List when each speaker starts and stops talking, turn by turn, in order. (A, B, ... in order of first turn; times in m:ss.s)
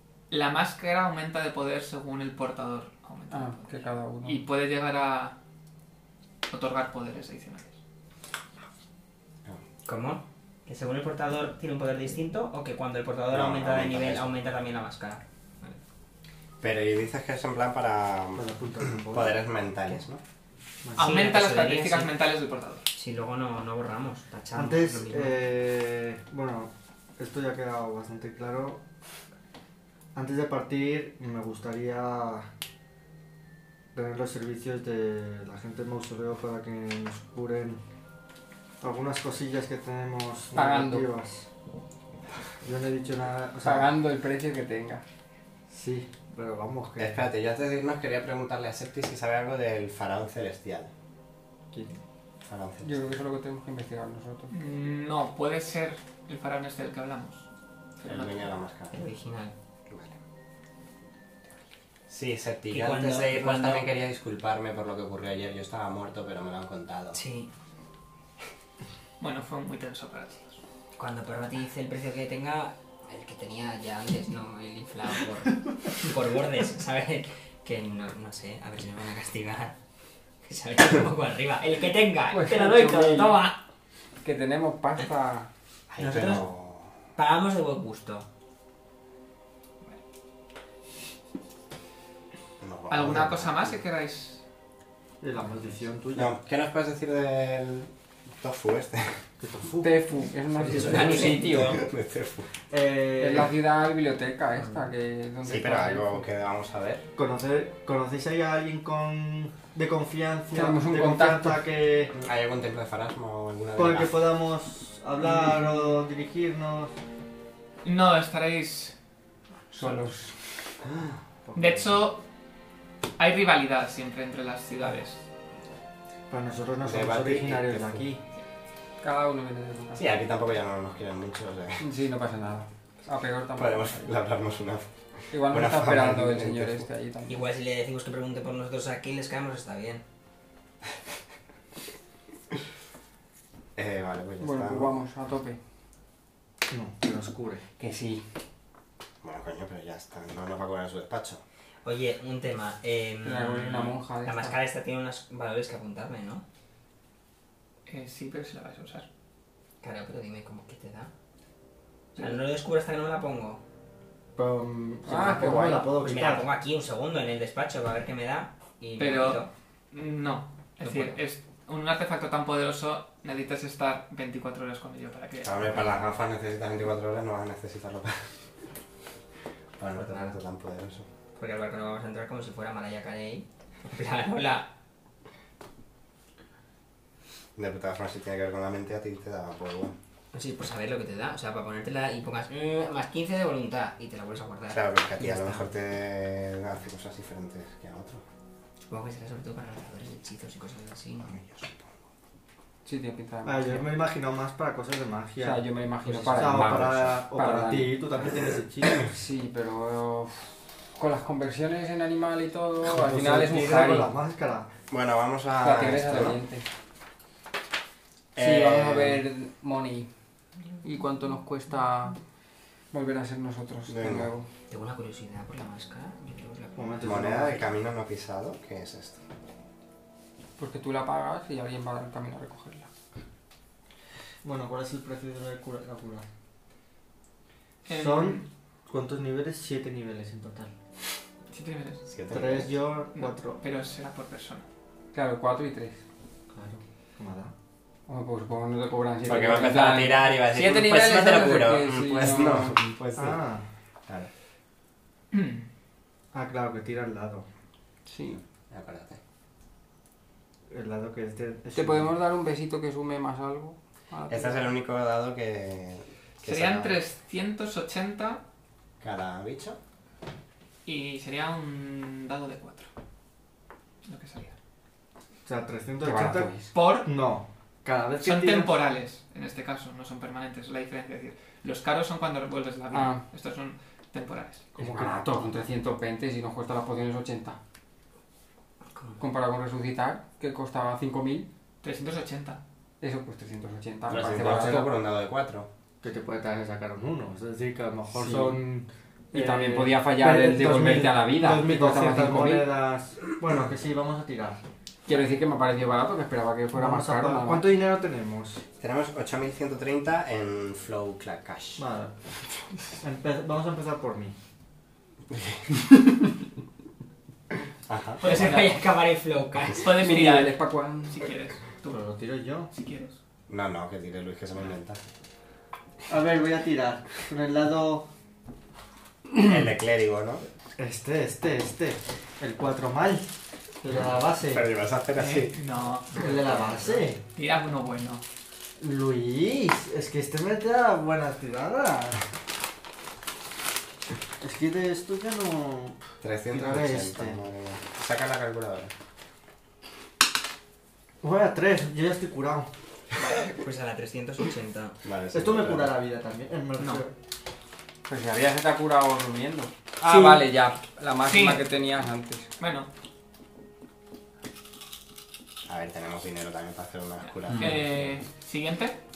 0:00.3-0:03.7 A
0:03.3-0:04.4 B
0:04.2-0:05.3 A
0:06.5-0:07.8 A
0:09.8-0:15.8 C
0:13.3-0:14.3 D
0:16.6-0:20.2 D
0:18.3-0:19.4 E
0:21.0-0:22.8 A
0:21.0-0:22.1 C
0:22.9-0:25.4 C
0:24.5-0:28.8 E
0:30.1-0:32.5 E
0:33.9-0:37.8 E
0:38.8-0:41.4 E
0:40.5-0:41.1 B
0:42.6-0:43.9 E
0:43.6-0:45.0 B
0:45.7-0:47.2 E
0:47.0-0:50.9 D
0:51.7-0:52.0 E
0:52.4-0:53.2 D
0:52.8-0:54.5 B
0:54.5-0:57.4 A
0:58.0-0:58.4 A
0:58.0-0:59.0 D
0:58.9-0:59.5 C
0:59.9-1:00.2 D
1:02.1-1:07.2 D
1:02.7-1:03.9 C
1:07.1-1:07.5 C
1:09.2-1:10.6 A
1:11.0-1:19.7 C
1:20.4-1:23.6 C
1:22.3-1:23.4 B
1:24.2-1:25.5 B
1:25.9-1:26.4 C
1:26.0-1:27.0 D
1:27.1-1:28.2 C
1:32.6-1:33.8 D
1:32.9-1:34.4 A
1:35.2-1:36.3 E
1:36.1-1:39.2 D
1:39.4-1:40.0 E
1:39.8-1:41.8 B
1:40.6-1:41.8 C
1:41.4-1:42.5 D
1:42.7-1:43.6 E
1:43.2-1:46.2 B
1:45.4-1:47.0 D
1:47.2-1:52.2 E
1:50.5-1:51.7 B
1:52.2-1:54.2 D
1:53.8-1:56.9 E
1:55.2-1:56.0 A
1:57.8-1:58.9 A
1:59.7-2:00.3 B
1:59.7-2:00.1 A
2:01.4-2:02.0 E
2:01.5-2:02.2 A
2:03.2-2:05.2 A
2:06.3-2:08.2 E
2:06.8-2:08.0 D
2:09.0-2:10.1 B
2:10.0-2:11.8 D
2:11.8-2:14.1 B
2:13.6-2:16.8 D
2:15.3-2:17.4 B
2:17.2-2:20.0 C
2:23.8-2:24.9 D
2:24.4-2:25.6 B
2:26.7-2:27.6 E
2:27.8-2:28.2 B
2:29.2-2:31.4 D
2:31.8-2:36.4 C
2:33.2-2:34.6 B
2:37.9-2:39.0 A
2:39.8-2:41.1 C
2:42.1-2:43.6 C
2:44.4-2:46.5 E
2:45.0-2:45.9 B
2:46.0-2:49.5 C
2:49.0-2:56.0 A
2:50.8-2:51.2 C
2:55.4-2:58.3 D
2:59.8-3:01.0 D
3:00.0-3:00.4 C
3:01.4-3:04.7 C
3:07.6-3:09.9 D
3:10.3-3:15.6 C
3:14.7-3:18.2 D
3:18.9-3:21.4 C
3:21.2-3:21.9 D
3:22.8-3:24.0 B
3:23.4-3:29.1 E
3:25.4-3:28.0 B
3:29.0-3:34.1 B
3:32.8-3:34.7 E
3:34.9-3:36.4 D
3:35.6-3:36.6 B
3:38.3-3:39.2 D
3:38.4-3:40.1 B
3:40.8-3:42.2 B
3:42.9-3:44.5 B
3:43.9-3:44.3 D
3:44.7-3:47.5 C
3:46.8-3:47.6 E
3:47.0-3:49.2 D
3:50.6-3:52.9 B
3:54.4-3:56.2 E
3:57.8-3:58.5 A
3:57.9-4:00.7 E
4:01.5-4:02.0 A
4:02.1-4:02.7 D
4:02.3-4:03.6 E
4:03.1-4:04.6 A
4:05.1-4:06.0 B
4:06.5-4:07.5 E
4:08.1-4:12.8 B
4:09.2-4:13.4 D
4:13.2-4:13.6 E
4:15.3-4:15.7 A
4:16.3-4:17.4 E
4:18.1-4:18.4 B
4:18.7-4:19.2 D
4:20.7-4:22.1 E
4:21.7-4:24.7 B
4:24.3-4:27.0 D
4:26.4-4:28.4 A
4:29.0-4:29.8 D
4:30.8-4:32.9 A
4:34.0-4:34.5 A
4:35.4-4:36.5 E
4:36.0-4:36.7 B
4:36.7-4:37.1 A
4:37.0-4:38.7 E
4:38.2-4:44.7 A
4:42.9-4:43.2 B
4:44.8-4:47.6 B
4:44.8-4:45.2 E
4:45.0-4:45.4 D
4:48.9-4:49.2 C
4:49.2-4:51.5 B
4:51.8-4:52.6 A
4:53.0-4:54.9 B
4:54.1-4:55.7 D
4:54.4-4:54.8 E
4:56.0-5:04.6 E
4:58.1-4:58.6 B
4:59.3-5:02.7 B
5:05.0-5:07.7 B
5:06.7-5:08.6 E
5:08.8-5:11.8 D
5:11.8-5:12.1 E
5:13.0-5:14.3 E
5:15.3-5:15.6 D
5:17.9-5:18.6 D
5:18.2-5:20.0 C
5:18.2-5:18.8 A
5:19.8-5:22.0 A
5:20.0-5:21.2 B
5:21.9-5:22.7 E
5:22.7-5:23.2 A
5:23.5-5:25.0 D
5:26.1-5:28.1 E
5:29.3-5:30.4 D
5:30.8-5:33.3 E
5:33.8-5:34.7 E
5:34.4-5:35.5 D
5:35.2-5:36.3 A
5:36.1-5:37.2 E
5:36.2-5:37.1 C
5:37.3-5:38.2 A
5:38.8-5:42.2 E
5:44.4-5:46.0 E
5:46.2-5:48.9 D
5:46.5-5:47.4 E
5:51.2-5:52.7 E
5:53.2-5:55.0 C
5:55.0-5:56.0 D
5:55.3-5:57.1 E
5:56.8-5:57.0 A
5:58.1-6:02.5 B
6:00.0-6:00.4 E
6:01.2-6:01.6 A
6:02.6-6:02.9 A
6:05.6-6:08.0 D
6:07.4-6:09.0 A